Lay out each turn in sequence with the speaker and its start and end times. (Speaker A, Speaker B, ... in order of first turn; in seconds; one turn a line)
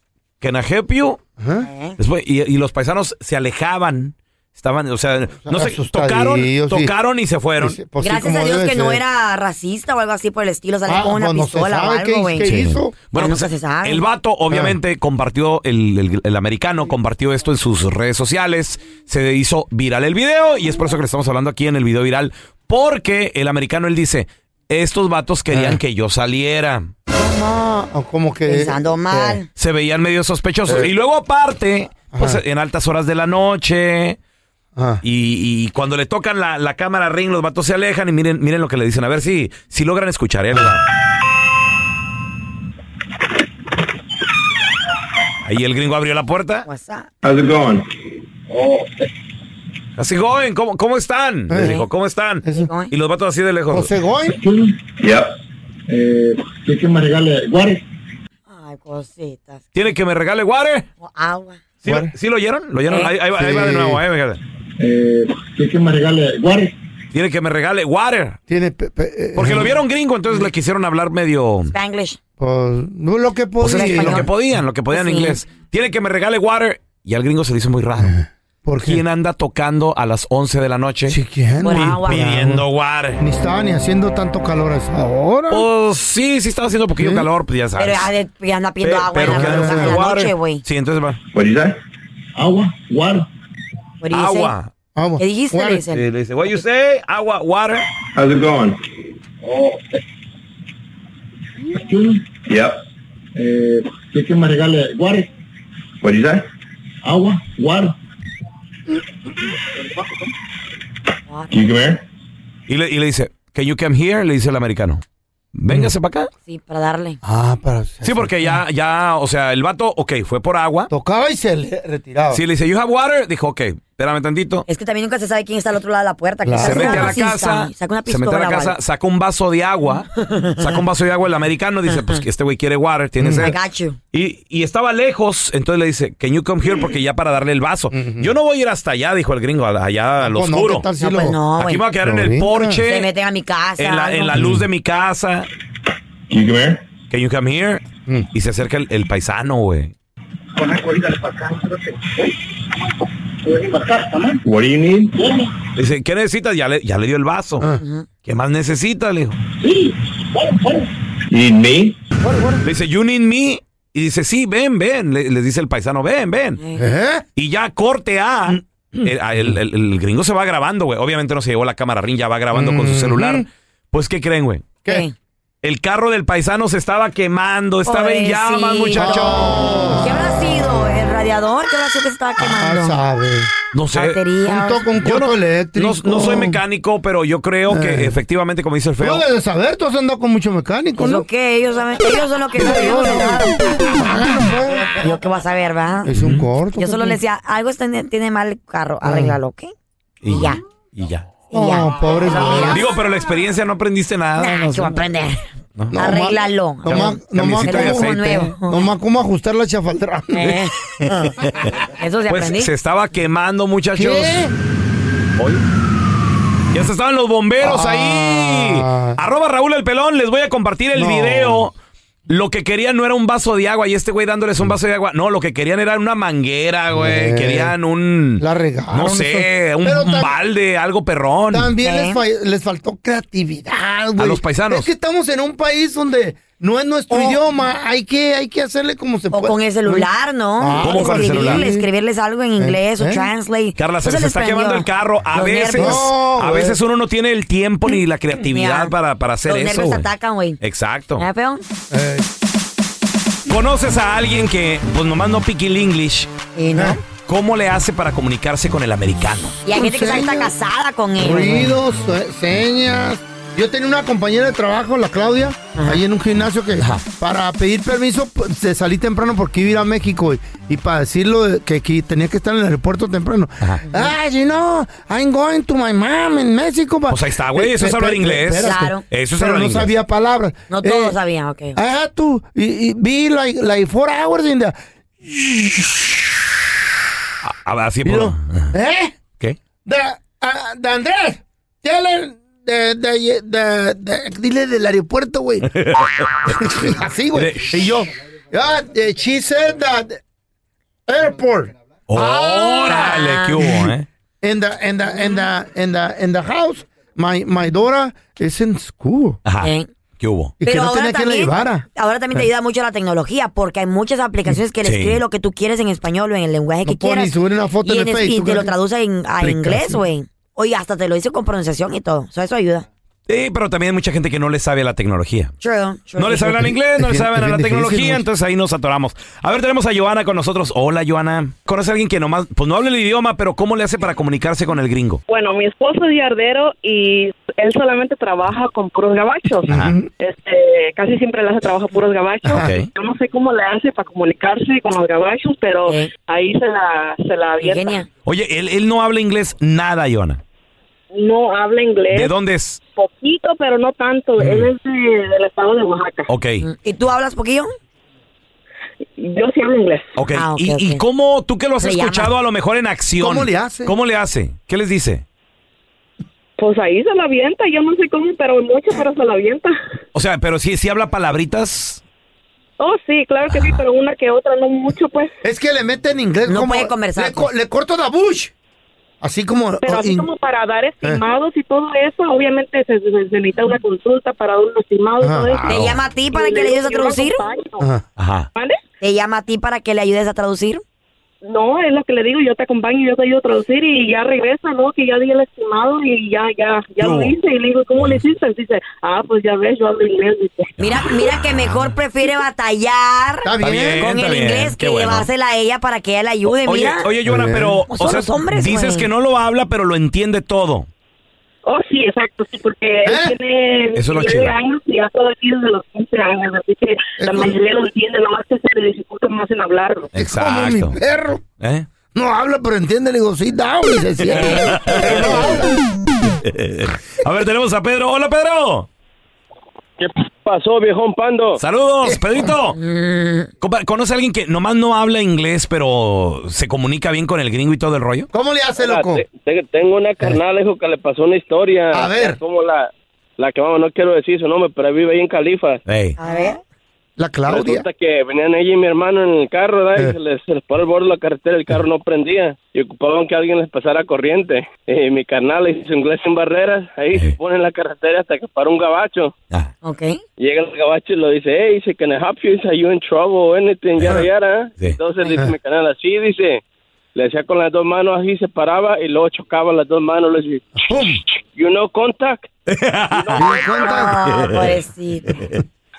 Speaker A: 0.4-1.2
Speaker B: 1.4-1.7
Speaker C: 1.6-2.0
Speaker A: 2.0-7.8
Speaker B: 5.5-6.9
Speaker B: 7.6-9.0
Speaker C: 8.0-12.6
Speaker B: 10.9-12.9
Speaker A: 12.4-26.9
Speaker C: 13.1-14.0
Speaker B: 14.5-14.8
Speaker B: 25.5-25.8
Speaker B: 27.2-29.4
Speaker C: 28.5-29.5
Speaker A: 29.6-34.2
Speaker B: 32.1-32.4
Speaker B: 34.8-35.0
Speaker A: 35.0-40.8
Speaker A: 45.4-46.7
Speaker C: 46.7-47.1
Speaker D: 47.2-47.9
Speaker D: 48.5-49.1
Speaker A: 50.0-53.9
Speaker B: 51.5-51.8
Speaker C: 51.6-51.8
Speaker B: 52.4-52.7
Speaker C: 52.5-52.9
Speaker B: 53.7-54.4
Speaker D: 54.3-55.3
Speaker D: 55.9-57.8
Speaker C: 58.5-59.7
Speaker A: 59.8-60.9
Speaker C: 61.0-61.6
Speaker A: 61.8-64.4
Speaker B: 61.9-62.1
Speaker C: 62.9-63.1
Speaker B: 63.4-64.0
Speaker D: 64.8-66.8
Speaker A: 67.1-68.4
Speaker B: 68.5-69.8
Speaker A: 69.3-71.7
Speaker C: 71.7-72.2
Speaker B: 72.4-74.3
Speaker A: 73.6-78.1
Speaker C: 73.6-74.3
Speaker C: 74.9-75.4
Speaker B: 78.0-79.0
Speaker A: 78.8-81.2
Speaker B: 81.1-82.7
Speaker C: 81.6-82.3
Speaker A: 81.7-83.2
Speaker B: 83.2-85.7
Speaker A: 85.5-88.1
Speaker B: 87.0-87.3
Speaker C: 87.8-90.6
Speaker A: 88.8-91.2
Speaker B: 89.2-90.0
Speaker D: 91.3-91.8
Speaker D: 92.3-93.3
Speaker C: 94.0-94.5
Speaker A: 94.1-94.7
Speaker B: 95.0-95.8
Speaker C: 95.2-96.0
Speaker A: 95.9-97.9
Speaker D: 98.2-98.8
Speaker D: 99.4-100.0
Speaker D: 101.7-102.8
Speaker D: 103.4-105.3
Speaker D: 106.0-106.5
Speaker D: 107.0-108.0
Speaker C: 111.3-111.5
Speaker D: 111.5-112.0
Speaker A: 112.7-115.0
Speaker A: 115.5-116.3
Speaker C: 116.5-117.2
Speaker B: 117.2-118.6
Speaker A: 118.0-120.9
Speaker B: 120.9-122.4
Speaker A: 122.3-124.7
Speaker C: 124.7-128.8
Speaker B: 126.5-127.2
Speaker A: 126.6-133.6
Speaker C: 130.2-130.7
Speaker C: 131.9-132.2
Speaker B: 133.2-133.5
Speaker C: 133.4-134.0
Speaker A: 134.1-140.9
Speaker B: 137.9-138.3
Speaker B: 140.2-141.4
Speaker C: 141.0-141.8
Speaker A: 141.6-143.1
Speaker B: 142.0-142.8
Speaker C: 142.8-144.4
Speaker A: 143.8-145.5
Speaker B: 144.3-144.7
Speaker D: 146.3-146.8
Speaker A: 147.1-149.9
Speaker D: 150.6-151.7
Speaker D: 153.5-155.5
Speaker A: 155.8-157.7
Speaker C: 157.8-158.1
Speaker A: 158.2-159.4
Speaker D: 159.6-162.0
Speaker C: 162.2-162.6
Speaker A: 162.6-166.6
Speaker B: 166.8-167.2
Speaker A: 167.4-174.8
Speaker B: 172.5-173.5
Speaker C: 174.9-175.1
Speaker A: 175.6-179.7
Speaker C: 177.9-183.0
Speaker B: 178.9-180.2
Speaker B: 182.4-183.5
Speaker A: 183.7-184.2
Speaker C: 183.9-184.8
Speaker B: 184.4-186.6
Speaker A: 185.0-189.2
Speaker B: 187.7-188.2
Speaker B: 189.0-191.2
Speaker C: 191.0-193.6
Speaker B: 192.5-195.1
Speaker C: 195.0-196.1
Speaker B: 196.1-197.2
Speaker A: 196.2-196.5
Speaker C: 196.8-199.7
Speaker B: 199.0-199.4
Speaker A: 200.2-201.3
Speaker C: 200.3-200.6
Speaker C: 201.5-202.9
Speaker B: 201.5-202.8
Speaker A: 202.7-205.0
Speaker C: 204.4-205.4
Speaker A: 205.8-206.1
Speaker B: 205.9-210.6
Speaker C: 205.9-208.9
Speaker A: 206.9-208.6
Speaker C: 210.3-211.4
Speaker A: 211.4-214.5
Speaker C: 212.0-212.7
Speaker B: 214.0-214.5
Speaker A: 215.4-215.7
Speaker A: 216.7-221.7
Speaker B: 217.6-219.2
Speaker B: 220.9-221.7
Speaker A: 222.3-231.7
Speaker B: 226.9-227.7
Speaker B: 228.4-230.3
Speaker B: 231.5-240.1
Speaker C: 231.8-232.2
Speaker A: 234.2-234.9
Speaker C: 237.1-237.4
Speaker C: 239.3-246.1
Speaker B: 240.6-241.9
Speaker A: 240.8-241.7
Speaker B: 242.6-243.3
Speaker A: 243.8-250.1
Speaker B: 245.8-246.8
Speaker C: 248.5-248.9
Speaker C: 249.4-250.6
Speaker A: 250.6-251.3
Speaker C: 251.2-251.6
Speaker B: 251.9-252.3
Speaker A: 253.5-256.3
Speaker C: 256.6-257.0
Speaker B: 256.7-257.0
Speaker A: 257.3-259.6
Speaker C: 259.6-261.8
Speaker B: 259.8-260.5
Speaker B: 261.2-281.1
Speaker C: 265.8-266.0
Speaker A: 277.1-279.9
Speaker C: 278.6-279.0
Speaker C: 280.7-281.8
Speaker B: 281.8-286.3
Speaker A: 287.4-288.7
Speaker B: 288.1-289.1
Speaker B: 289.9-295.7
Speaker A: 295.7-298.1
Speaker B: 296.5-300.2
Speaker B: 301.1-303.1
Speaker A: 302.1-304.1
Speaker C: 302.9-303.6
Speaker B: 304.4-309.4
Speaker A: 309.4-310.6
Speaker C: 309.6-309.9
Speaker B: 310.6-311.9
Speaker C: 310.6-317.3
Speaker A: 314.8-315.2
Speaker B: 316.9-318.7
Speaker C: 317.9-322.9
Speaker B: 319.4-320.0
Speaker A: 323.3-325.5
Speaker C: 325.6-326.6
Speaker A: 326.2-335.2
Speaker B: 326.6-328.2
Speaker E: 335.3-348.0
Speaker B: 339.7-340.1
Speaker A: 339.7-340.0
Speaker A: 342.6-342.9
Speaker C: 345.9-346.1
Speaker C: 347.6-348.1
Speaker A: 348.2-350.4
Speaker E: 351.1-352.3
Speaker A: 352.1-352.8
Speaker E: 353.0-356.3
Speaker A: 354.4-354.7
Speaker A: 356.3-356.6
Speaker C: 356.6-357.7
Speaker E: 359.2-360.1
Speaker A: 360.2-365.2
Speaker C: 360.4-361.0
Speaker C: 361.8-362.3
Speaker B: 363.2-363.9
Speaker E: 366.6-369.8
Speaker A: 370.1-372.0
Speaker E: 372.8-375.3
Speaker A: 373.5-373.8
Speaker B: 375.4-378.5
Speaker C: 376.5-377.5
Speaker B: 379.2-380.3
Speaker E: 379.8-387.9
Speaker B: 385.2-385.6
Speaker A: 385.6-386.0
Speaker C: 385.7-387.4
Speaker A: 388.2-388.5
Speaker E: 388.6-388.8
Speaker C: 389.0-390.8
Speaker E: 391.4-401.1
Speaker A: 397.0-397.4
Speaker A: 400.8-401.9
Speaker C: 400.8-407.1
Speaker B: 403.4-404.1
Speaker A: 403.6-405.3
Speaker A: 406.6-410.9
Speaker B: 407.2-407.8
Speaker C: 407.9-409.1
Speaker E: 411.6-420.1
Speaker B: 413.1-413.4
Speaker A: 413.9-414.6
Speaker B: 417.2-417.6
Speaker A: 420.1-421.0
Speaker B: 420.2-421.4
Speaker A: 421.6-421.9
Speaker B: 422.1-425.7
Speaker A: 424.3-425.6
Speaker C: 424.3-424.7
Speaker A: 426.4-428.9
Speaker F: 430.0-431.6
Speaker A: 431.6-432.8
Speaker C: 432.8-433.5
Speaker A: 433.6-438.3
Speaker B: 438.3-439.2
Speaker F: 438.8-445.8
Speaker B: 441.9-442.4
Speaker A: 445.9-446.2
Speaker C: 446.2-446.6
Speaker B: 447.2-447.9
Speaker F: 447.5-459.3
Speaker C: 459.8-460.2
Speaker F: 460.4-466.6
Speaker F: 467.1-470.7
Speaker B: 470.8-471.2
Speaker F: 471.6-472.5
Speaker A: 472.7-473.4
Speaker F: 473.1-474.2
Speaker B: 473.4-474.1
Speaker C: 473.8-475.4
Speaker A: 474.3-474.7
Speaker A: 475.3-475.6